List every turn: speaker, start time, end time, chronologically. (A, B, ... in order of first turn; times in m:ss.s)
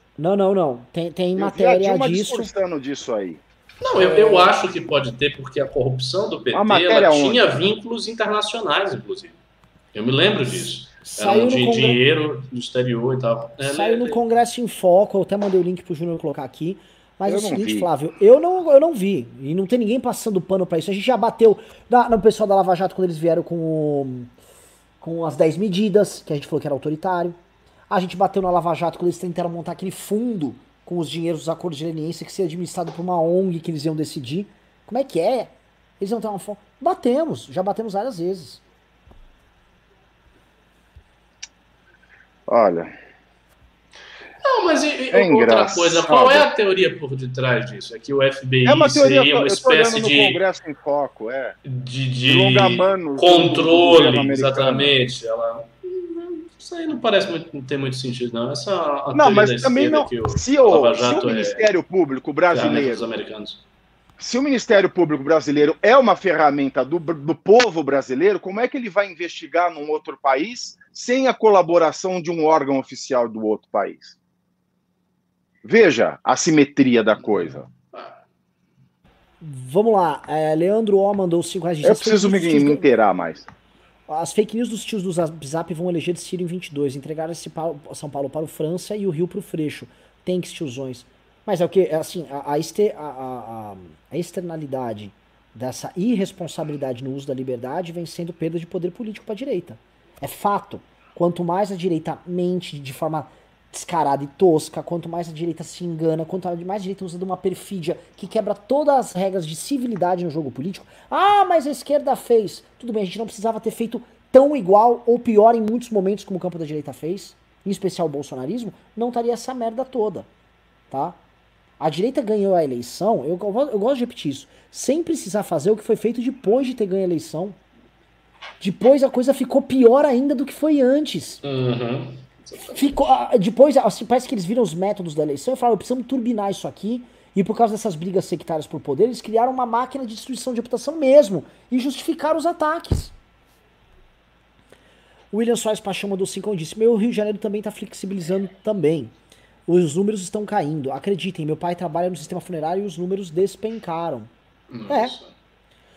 0:00.2-0:02.5 A
0:01.4-0:03.4 B
0:03.8-0:09.4 C
0:04.0-0:04.5 B
0:06.5-0:07.5 B
0:09.9-0:14.2 C
0:11.0-0:12.0 A
0:13.6-0:24.3 A
0:17.2-0:17.9 B
0:25.0-0:27.4 A
0:27.9-0:38.6 A
0:42.5-0:42.9 B
0:44.4-0:50.4 C
0:45.1-0:46.4 B
0:48.6-0:51.6 B
0:51.6-1:01.6 C
0:52.2-0:55.0 B
0:59.1-1:03.1 B
1:02.5-1:03.6 C
1:04.2-1:14.2 B
1:15.6-1:17.6 B
1:17.2-1:18.2 C
1:19.4-1:22.8 A
1:21.8-1:23.5 B
1:24.1-2:00.3 A
2:00.9-2:01.2 A
2:01.8-2:07.6 A
2:08.6-2:11.4 A
2:11.4-2:12.9 C
2:12.7-2:23.1 A
2:25.3-2:29.1 A
2:29.7-2:34.3 A
2:34.7-2:35.3 C
2:34.9-2:35.2 A